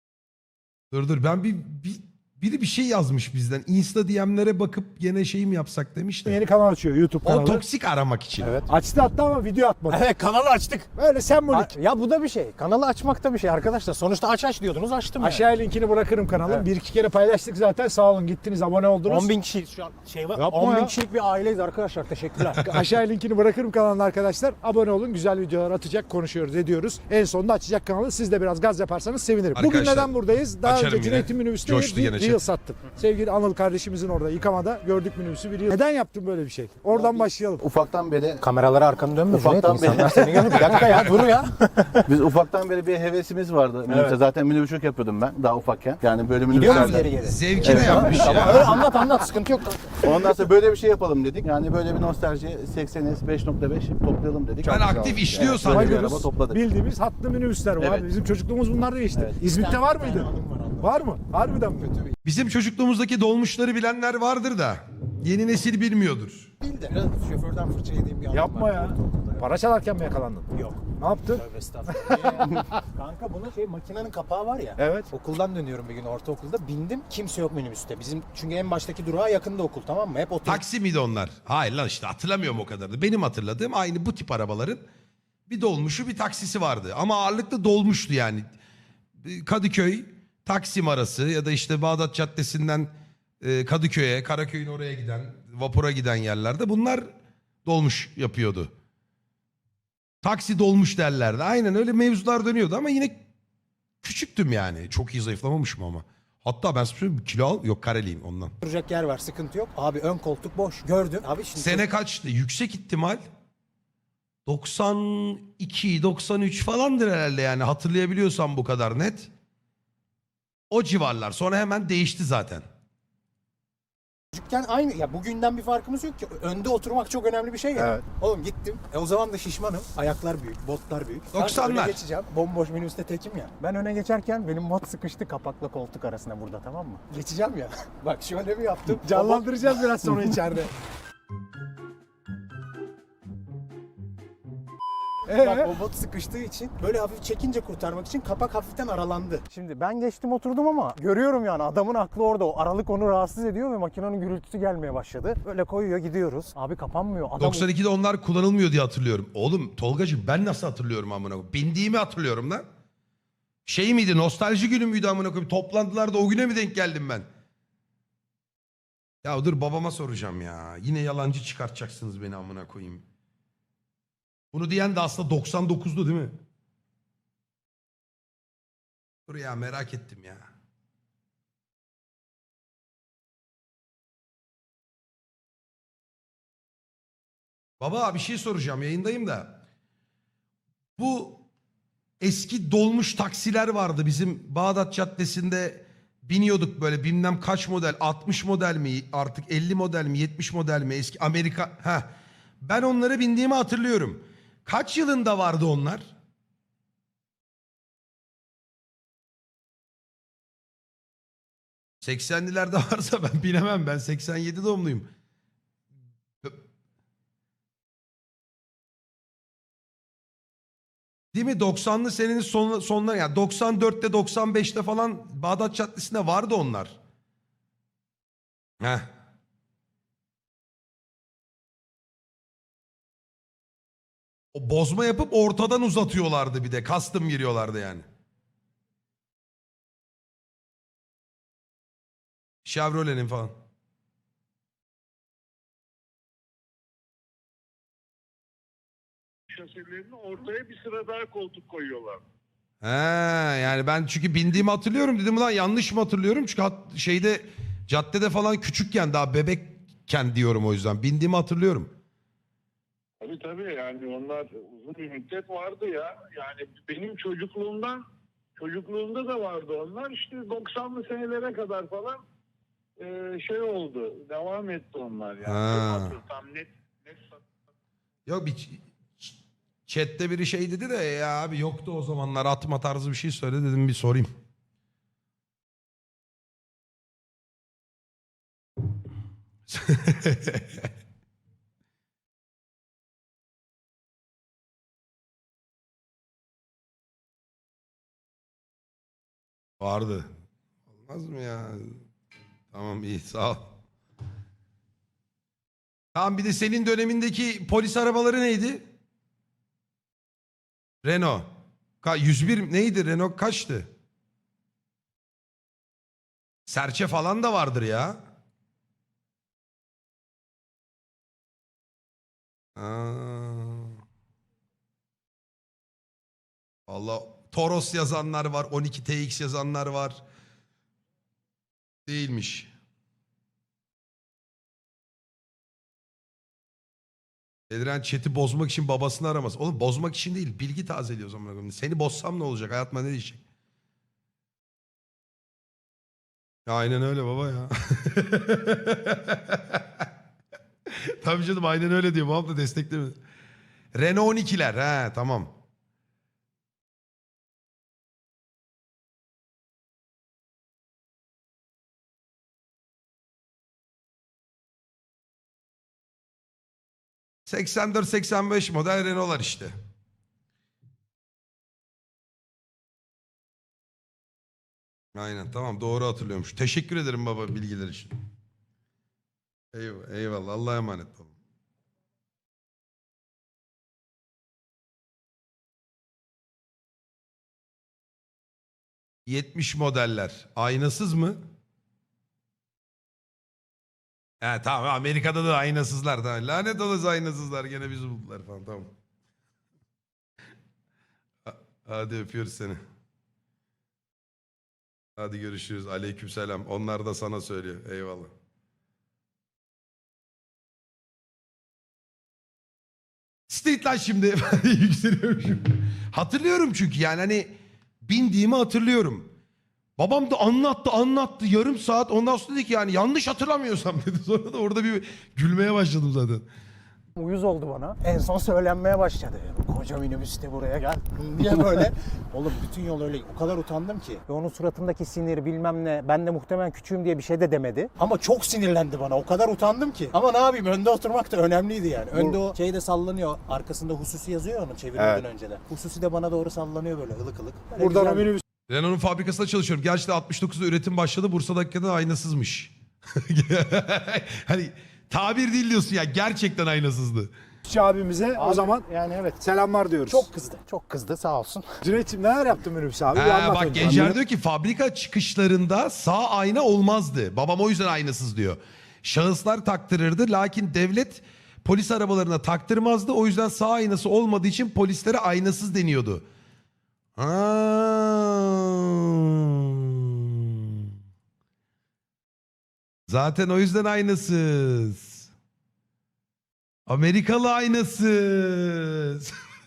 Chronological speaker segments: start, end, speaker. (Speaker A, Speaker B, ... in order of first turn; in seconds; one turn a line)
Speaker A: 0.9-6.4
Speaker B: 6.2-7.6
Speaker A: 7.2-8.5
Speaker C: 8.4-8.7
Speaker B: 8.7-10.0
Speaker C: 9.9-10.9
Speaker B: 10.9-11.7
Speaker C: 11.5-15.5
Speaker B: 15.2-19.3
Speaker C: 19.1-22.6
Speaker B: 20.4-20.9
Speaker B: 22.6-37.6
Speaker A: 29.5-32.4
Speaker D: 36.9-38.4
Speaker C: 38.4-42.0
Speaker D: 39.3-41.0
Speaker A: 40.5-41.2
Speaker D: 42.0-47.1
Speaker C: 43.9-44.1
Speaker A: 46.5-48.8
Speaker C: 46.5-50.1
Speaker D: 47.6-48.6
Speaker D: 50.0-56.6
Speaker B: 54.6-60.3
Speaker A: 54.6-56.1
Speaker D: 57.8-58.0
Speaker C: 59.4-61.1
Speaker B: 60.8-61.9
Speaker C: 61.8-62.1
Speaker A: 62.2-66.5
Speaker C: 66.6-69.5
Speaker B: 68.3-72.6
Speaker C: 70.5-80.6
Speaker B: 74.8-75.1
Speaker A: 80.4-84.8
Speaker A: 85.5-88.4
Speaker A: 89.2-97.1
Speaker A: 97.6-98.7
Speaker A: 100.2-103.2
Speaker A: 104.0-108.5
Speaker C: 108.6-111.8
Speaker A: 111.5-113.2
Speaker A: 114.5-119.3
Speaker A: 120.7-122.6
Speaker C: 124.3-139.9
Speaker B: 127.7-128.0
Speaker A: 131.3-132.0
Speaker B: 139.0-140.7
Speaker B: 145.3-145.7
Speaker C: 145.3-157.7
Speaker A: 157.4-162.6
Speaker A: 163.6-167.2
Speaker A: 169.2-173.0
Speaker A: 174.5-176.4
Speaker A: 179.3-180.4
Speaker A: 187.8-189.6
Speaker A: 191.0-191.4
Speaker A: 192.2-202.1
Speaker A: 202.6-206.1
Speaker A: 212.0-215.1
Speaker A: 221.3-226.9
Speaker A: 228.8-229.1
Speaker A: 234.5-238.0
Speaker A: 242.6-243.5
Speaker E: 249.5-252.2
Speaker A: 252.8-261.9
Speaker E: 263.2-268.0
Speaker E: 268.6-272.2
Speaker E: 273.0-277.4
Speaker A: 275.4-276.2
Speaker A: 278.3-279.3
Speaker A: 279.9-284.3
Speaker A: 289.7-290.9
Speaker A: 299.8-300.3
Speaker A: 301.0-302.0
Speaker A: 302.7-303.7
Speaker A: 306.1-308.8
Speaker A: 311.0-311.5
Speaker A: 312.0-313.9
Speaker A: 316.6-318.2
Speaker A: 322.8-323.9
Speaker A: 326.9-330.2
Speaker A: 332.1-332.7
Speaker A: 337.7-343.4
Speaker A: 346.6-349.8
Speaker A: 350.9-353.2
Speaker A: 353.9-355.5
Speaker A: 367.4-369.7
Speaker A: 375.1-378.2
Speaker A: 379.7-381.3
Speaker A: 389.3-391.4
Speaker A: 394.4-398.9
Speaker A: 401.4-402.8
Speaker A: 405.2-408.3
Speaker A: 413.5-419.3
Speaker A: 420.0-426.4
Speaker C: 427.1-448.3
Speaker B: 442.1-442.4
Speaker B: 444.9-445.2
Speaker B: 447.8-448.4
Speaker A: 448.7-457.3
Speaker B: 457.6-458.8
Speaker C: 458.4-459.4
Speaker B: 459.4-460.3
Speaker C: 460.1-461.7
Speaker B: 461.8-464.2
Speaker A: 463.1-476.2
Speaker D: 463.8-464.1
Speaker A: 477.2-480.8
Speaker A: 483.1-485.3
Speaker A: 486.9-489.3